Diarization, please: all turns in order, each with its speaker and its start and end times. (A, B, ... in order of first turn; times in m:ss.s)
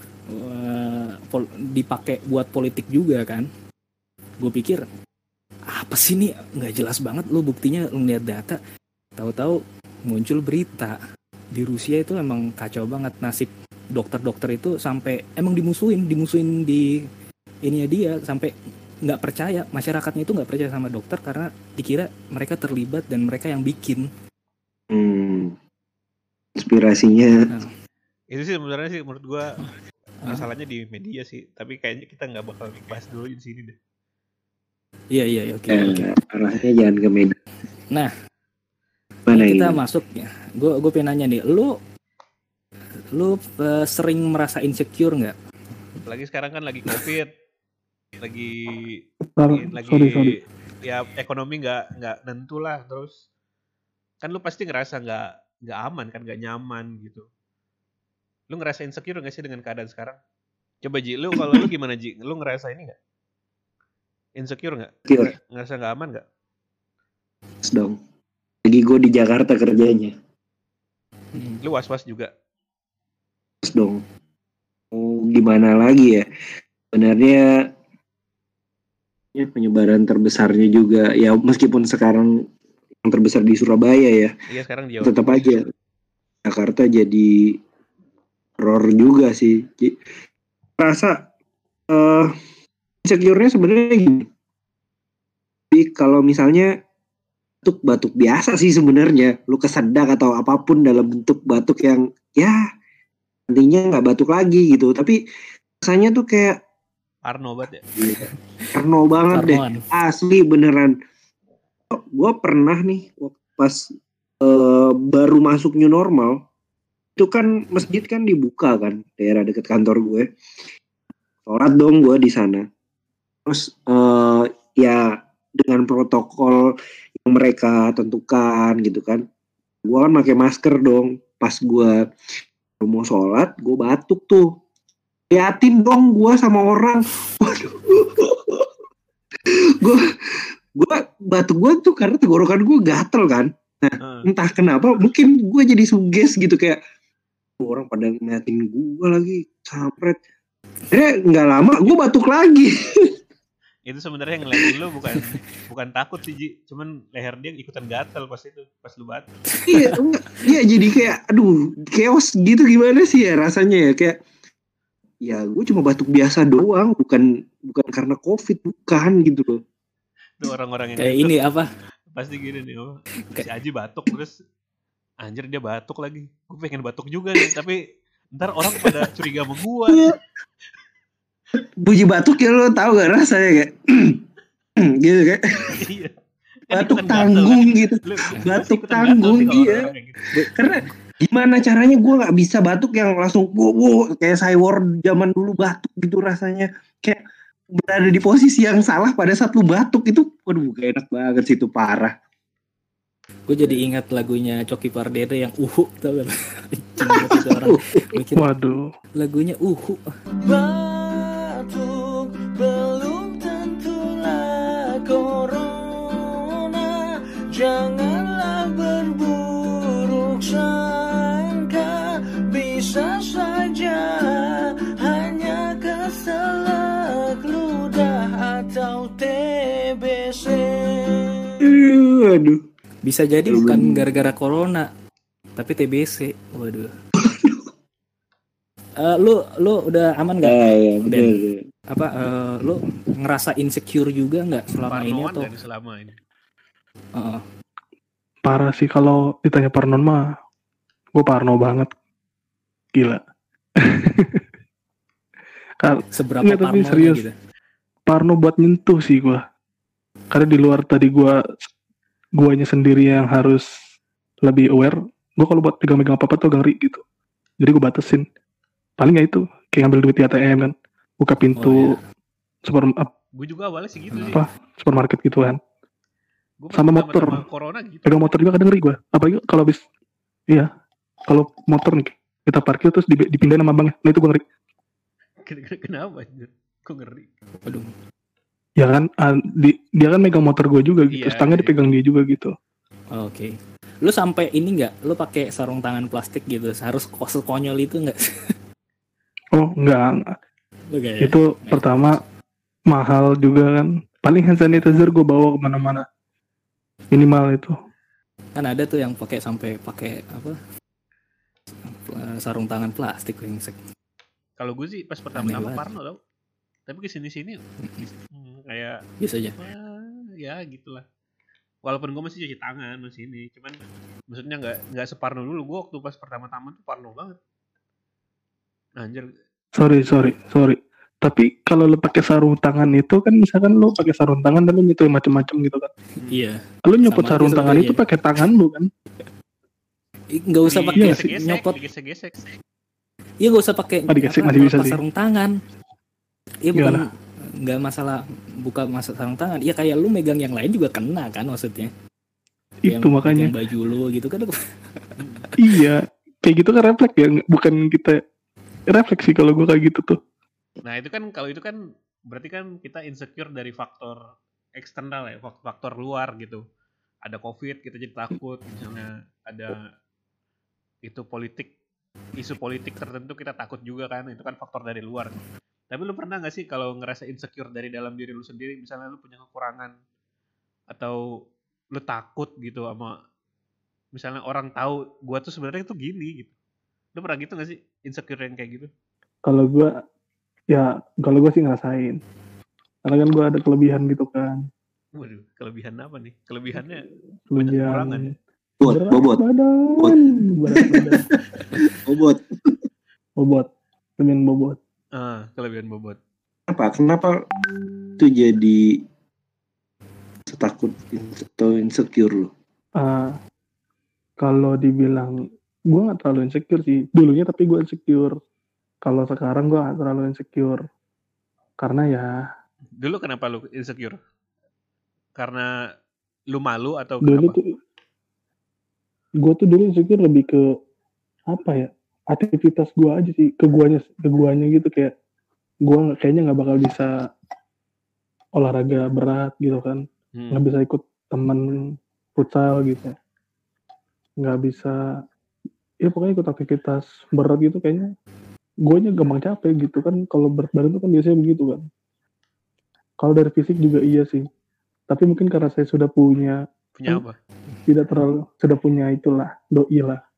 0:00.3-0:03.5 A
0:04.4-0:04.8 A
0:05.8-0:08.6 A
0:09.2-0:11.0 A
0:11.6-0:16.9 A
0:17.6-0:18.5 A
0:19.0-0:24.1 A
0:24.9-0:25.6 B
0:26.6-0:27.5 B
0:28.3-0:29.6 C
0:30.3-0:33.8 C
0:35.1-0:36.1 A
0:35.7-0:37.4 B
0:39.3-0:39.8 B
0:39.3-0:41.8 A
0:43.1-0:45.3 A
0:46.1-0:47.3 C
0:48.2-0:53.1 C
0:49.4-0:50.4 D
0:54.2-0:57.3 C
0:58.5-1:00.2 C
1:00.8-1:03.0 C
1:04.4-1:06.2 C
1:07.6-1:08.0 B
1:08.6-1:10.1 B
1:11.3-1:11.6 A
1:11.6-1:12.3 C
1:13.6-1:14.0 B
1:14.9-1:16.3 B
1:16.9-1:17.5 B
1:19.3-1:22.5 B
1:23.0-1:24.3 B
1:24.5-1:25.5 C
1:25.0-1:25.6 B
1:26.4-1:27.6 B
1:28.6-1:30.0 B
1:30.8-1:31.3 B
1:31.9-1:32.3 B
1:33.0-1:34.3 B
1:35.7-1:36.7 B
1:37.6-1:42.6 B
1:43.5-1:45.2 B
1:45.8-1:46.6 B
1:47.2-1:47.8 C
1:48.0-1:51.0 B
1:49.3-1:49.8 A
1:51.9-1:56.4 B
1:57.2-2:00.3 B
2:01.5-2:02.7 B
2:03.4-2:09.2 B
2:09.8-2:12.0 B
2:12.8-2:14.5 B
2:15.3-2:18.7 B
2:19.5-2:26.8 B
2:24.0-2:24.3 C
2:27.6-2:30.2 B
2:30.9-2:33.1 B
2:33.9-2:39.3 C
2:39.5-2:40.0 A
2:39.7-2:44.2 B
2:45.2-2:49.6 B
2:50.4-2:51.4 C
2:51.0-2:51.7 A
2:52.1-2:54.3 C
2:55.2-2:57.8 C
2:58.4-3:00.1 C
2:59.9-3:00.2 B
3:01.6-3:04.2 B
3:04.8-3:05.8 B
3:05.7-3:06.1 C
3:06.7-3:10.3 C
3:06.7-3:09.9 B
3:10.4-3:22.1 B
3:23.5-3:28.4 A
3:27.0-3:28.1 B
3:28.4-3:28.9 D
3:29.2-3:30.0 A
3:30.4-3:51.7 E
3:51.6-3:52.6 B
3:53.0-3:54.9 A
3:53.5-3:54.3 B
3:55.6-3:56.9 A
3:57.2-3:57.6 B
3:59.0-4:01.3 A
4:00.4-4:01.6 B
4:01.9-4:05.5 A
4:04.9-4:06.2 C
4:07.2-4:07.4 A
4:08.4-4:10.2 D
4:11.2-4:11.9 D
4:13.0-4:13.2 D
4:13.8-4:14.4 D
4:15.8-4:17.2 D
4:16.1-4:17.3 A
4:18.1-4:19.4 D
4:20.3-4:21.7 D
4:22.4-4:23.6 D
4:24.4-4:27.0 D
4:27.6-4:28.2 D
4:29.0-4:32.0 D
4:31.6-4:32.0 A
4:32.7-4:33.1 D
4:33.4-4:34.4 C
4:34.1-4:34.4 A
4:34.3-4:35.6 D
4:36.6-4:38.3 C
4:36.8-4:37.4 D
4:38.1-4:39.8 D
4:41.3-4:44.4 D
4:45.5-4:47.3 C
4:48.8-4:52.5 D
4:51.1-4:51.7 C
4:53.2-4:58.6 A
4:59.6-5:00.3 D
5:00.9-5:02.2 A
5:01.2-5:02.2 D
5:02.9-5:06.0 D
5:07.1-5:07.7 D
5:08.6-5:10.6 A
5:11.9-5:13.8 A
5:14.6-5:16.2 C
5:15.4-5:15.9 A
5:16.9-5:17.6 C
5:17.8-5:18.1 A
5:18.3-5:19.0 C
5:19.2-5:19.6 A
5:19.6-5:21.0 C
5:21.8-5:23.8 C
5:24.3-5:27.4 C
5:29.0-5:29.3 C
5:29.8-5:35.9 D
5:36.2-5:38.0 A
5:36.8-5:38.9 D
5:40.3-5:41.8 A
5:40.7-5:42.4 C
5:43.4-5:45.5 A
5:44.1-5:45.0 D
5:46.6-5:47.0 A
5:46.8-5:47.0 D
5:47.6-5:51.9 A
5:52.9-5:54.5 A
5:52.9-5:53.5 D
5:55.2-5:55.5 C
5:55.6-5:58.2 D
5:58.9-6:00.2 D
6:00.8-6:04.2 C
6:04.8-6:06.6 C
6:07.2-6:09.8 C
6:11.1-6:11.7 C
6:12.4-6:20.0 C
6:20.9-6:21.2 C
6:21.9-6:23.2 C
6:24.1-6:26.5 C
6:27.2-6:28.9 C
6:29.5-6:30.0 D
6:30.7-6:32.2 D
6:33.1-6:34.6 D
6:35.2-6:38.3 C
6:37.5-6:38.3 D
6:38.8-6:39.4 B
6:38.8-6:41.2 D
6:40.8-6:42.8 B
6:43.4-6:43.7 D
6:44.2-6:44.8 D
6:45.2-6:46.2 C
6:46.7-6:47.4 B
6:48.2-6:49.0 B
6:50.5-6:52.5 B
6:53.0-6:53.4 D
6:54.4-6:55.4 D
6:55.9-6:58.3 D
6:59.0-7:00.8 D
7:01.8-7:02.3 D
7:03.0-7:04.2 C
7:05.4-7:05.7 C
7:06.5-7:07.6 C
7:07.2-7:07.8 D
7:09.4-7:10.6 D
7:11.5-7:15.1 D
7:15.9-7:17.1 D
7:18.6-7:20.0 D
7:20.4-7:20.6 C
7:20.5-7:21.6 D
7:22.4-7:23.1 D
7:24.4-7:25.0 D
7:26.0-7:28.1 D
7:28.8-7:31.8 D
7:33.2-7:34.4 D
7:35.1-7:37.2 D
7:37.0-7:37.4 C
7:37.9-7:40.2 D